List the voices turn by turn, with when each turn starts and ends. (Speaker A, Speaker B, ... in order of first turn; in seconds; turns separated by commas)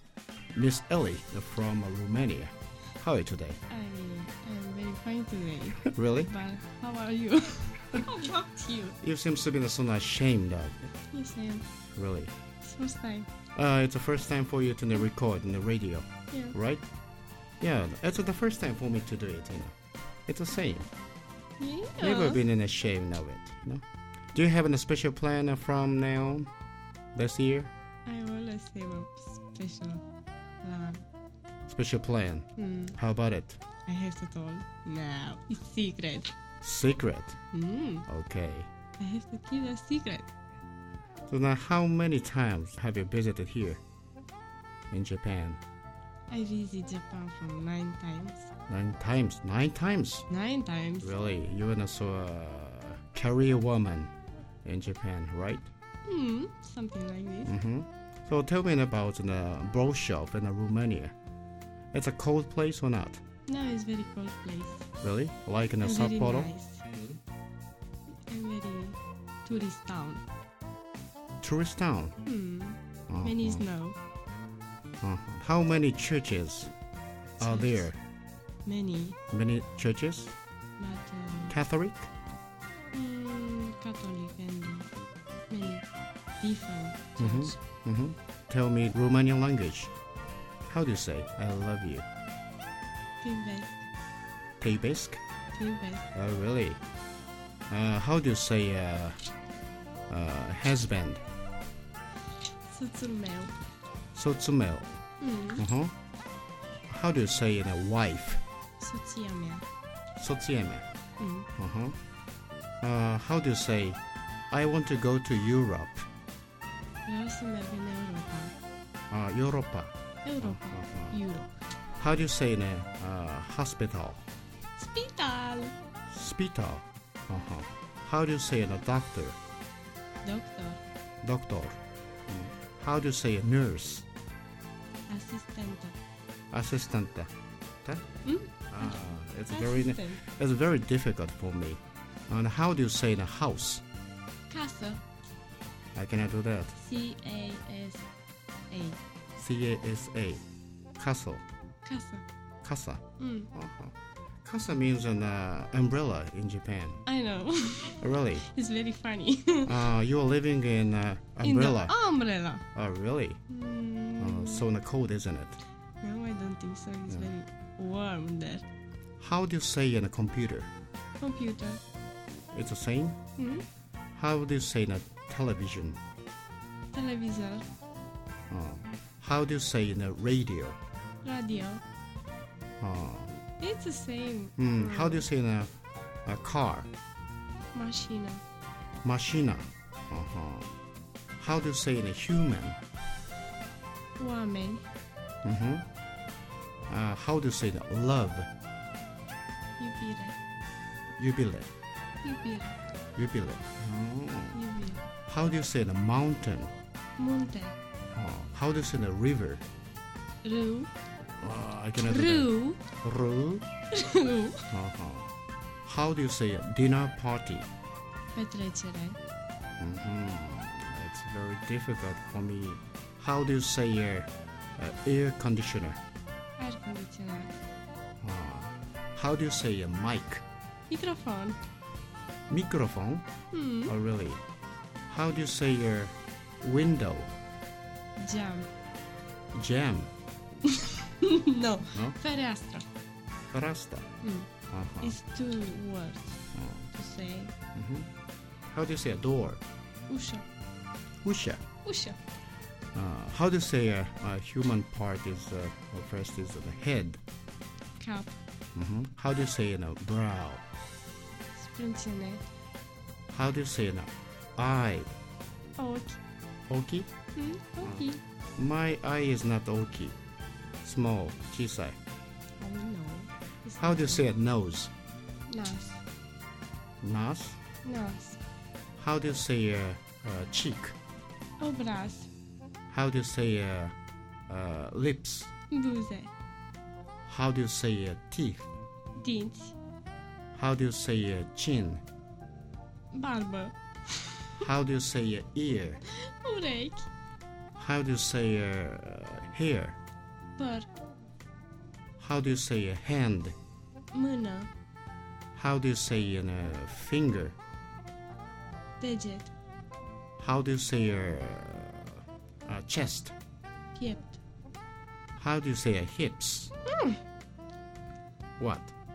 Speaker A: 0.5-3.6, Speaker B: 3.7-9.0, Speaker A: 5.9-6.3, Speaker A: 9.0-10.8, Speaker B: 11.1-11.7, Speaker A: 11.9-12.3, Speaker B: 12.6-13.3, Speaker A: 13.5-16.8, Speaker A: 17.6-19.7, Speaker A: 20.3-20.9, Speaker B: 21.6-22.4, Speaker A: 22.0-23.8, Speaker A: 24.3-26.5, Speaker A: 27.1-27.7, Speaker B: 28.1-30.0, Speaker B: 30.6-31.0, Speaker A: 31.7-33.6, Speaker B: 32.5-33.0, Speaker B: 33.8-36.3, Speaker A: 36.6-37.4, Speaker B: 37.5-38.1, Speaker A: 38.1-38.7, Speaker B: 39.0-40.3, Speaker A: 41.3-43.8, Speaker A: 44.9-45.6, Speaker B: 46.3-48.5, Speaker A: 48.7-50.2, Speaker B: 50.3-51.1, Speaker A: 51.0-54.1, Speaker A: 54.6-55.7, Speaker B: 56.0-57.5, Speaker A: 57.5-61.1, Speaker A: 61.9-63.2, Speaker B: 63.5-64.9, Speaker A: 65.0-66.5, Speaker B: 65.8-66.8, Speaker B: 68.3-70.2, Speaker A: 71.4-72.2, Speaker B: 72.2-74.0, Speaker A: 73.1-73.7, Speaker A: 75.0-76.7, Speaker B: 77.4-77.9, Speaker A: 77.4-78.0, Speaker B: 78.6-79.2, Speaker A: 79.3-80.3, Speaker B: 80.8-81.5, Speaker A: 81.5-82.1, Speaker B: 82.9-84.9, Speaker B: 85.5-85.8, Speaker B: 86.4-87.5, Speaker A: 87.2-89.9, Speaker A: 90.7-92.0, Speaker B: 93.2-93.8, Speaker A: 94.6-95.2, Speaker B: 95.5-96.1, Speaker A: 96.1-96.8, Speaker A: 97.7-99.3, Speaker A: 100.1-101.2, Speaker B: 102.7-103.5, Speaker A: 104.1-105.0, Speaker B: 105.2-105.6, Speaker A: 105.5-105.9, Speaker A: 106.9-108.4, Speaker B: 108.8-109.6, Speaker A: 110.2-110.8, Speaker B: 111.2-111.5, Speaker A: 111.5-112.0, Speaker A: 112.8-114.0, Speaker A: 114.5-116.0, Speaker B: 117.0-118.5, Speaker A: 119.1-121.2, Speaker B: 120.2-121.5, Speaker A: 122.0-124.3, Speaker B: 124.8-125.7, Speaker A: 126.1-129.4, Speaker B: 130.2-130.8, Speaker A: 131.2-134.1, Speaker B: 135.1-136.0, Speaker A: 136.5-137.3, Speaker B: 138.2-138.9, Speaker A: 138.7-143.8, Speaker B: 139.5-140.2, Speaker B: 144.5-145.0, Speaker A: 145.9-146.7, Speaker B: 146.7-148.0, Speaker B: 148.7-149.0, Speaker A: 149.3-150.4, Speaker A: 151.0-151.4, Speaker B: 151.8-152.2, Speaker A: 152.6-153.0, Speaker B: 153.2-153.5, Speaker A: 153.5-157.0, Speaker B: 157.1-159.8, Speaker A: 158.0-158.5, Speaker A: 159.6-161.9, Speaker B: 161.4-162.6, Speaker A: 162.7-163.4, Speaker B: 163.5-164.7, Speaker A: 164.2-165.6, Speaker B: 166.0-168.7, Speaker A: 169.2-170.7, Speaker B: 171.2-171.8, Speaker A: 172.5-173.2, Speaker B: 173.4-173.6, Speaker A: 174.1-176.0, Speaker B: 176.9-177.7, Speaker A: 178.5-180.8, Speaker B: 181.2-181.8, Speaker A: 182.8-183.3, Speaker B: 183.6-185.2, Speaker A: 184.6-185.7, Speaker A: 186.2-186.9, Speaker B: 187.7-188.4, Speaker A: 189.0-190.8, Speaker A: 191.4-192.8, Speaker B: 194.2-194.8, Speaker A: 195.4-195.9, Speaker A: 196.9-198.5, Speaker B: 199.8-200.4, Speaker A: 201.2-201.7, Speaker B: 202.2-202.8, Speaker A: 203.2-204.6, Speaker B: 204.5-205.0, Speaker A: 205.3-206.7, Speaker B: 207.2-207.8, Speaker A: 208.1-209.6, Speaker B: 210.4-210.9, Speaker A: 211.4-212.5, Speaker B: 212.0-212.8, Speaker A: 213.0-213.6, Speaker B: 213.9-214.7, Speaker A: 214.7-215.3, Speaker A: 215.8-217.7, Speaker B: 218.3-219.2, Speaker A: 219.8-226.0, Speaker B: 226.6-227.5, Speaker A: 228.2-230.4, Speaker B: 230.9-231.6, Speaker A: 232.5-233.3, Speaker B: 233.5-233.9, Speaker A: 233.9-234.4, Speaker A: 235.1-237.3, Speaker B: 238.2-238.7, Speaker A: 239.5-240.1, Speaker B: 240.6-242.8, Speaker A: 243.5-244.1, Speaker B: 244.2-244.5, Speaker A: 244.7-245.2, Speaker B: 245.0-246.4, Speaker A: 246.5-246.9, Speaker B: 246.9-247.5, Speaker A: 247.7-248.1, Speaker A: 248.7-249.6, Speaker B: 250.1-250.4, Speaker A: 251.2-251.6, Speaker B: 251.8-252.2, Speaker A: 252.9-257.2, Speaker B: 258.0-258.4, Speaker A: 258.7-260.6, Speaker B: 261.5-262.4, Speaker A: 263.3-265.1, Speaker B: 265.8-266.2, Speaker A: 266.7-267.1, Speaker B: 267.3-268.2, Speaker A: 268.6-270.2, Speaker A: 270.8-272.0, Speaker B: 272.6-274.3, Speaker A: 273.8-274.9, Speaker B: 275.5-276.0, Speaker A: 277.0-277.6, Speaker B: 277.8-278.4, Speaker A: 279.0-280.9, Speaker B: 281.6-282.3, Speaker A: 282.9-283.9, Speaker A: 284.5-285.5, Speaker B: 285.7-286.3, Speaker A: 287.2-288.7, Speaker B: 289.2-289.8, Speaker A: 290.5-292.0, Speaker B: 293.1-294.6, Speaker A: 294.6-296.0, Speaker B: 296.1-297.1, Speaker A: 297.7-300.0, Speaker B: 300.6-300.9, Speaker A: 302.2-303.6, Speaker B: 304.1-304.7, Speaker A: 305.5-307.6, Speaker B: 309.0-309.5, Speaker A: 310.4-313.3, Speaker B: 313.9-314.4, Speaker A: 315.4-316.7, Speaker B: 316.9-317.2, Speaker A: 318.6-318.9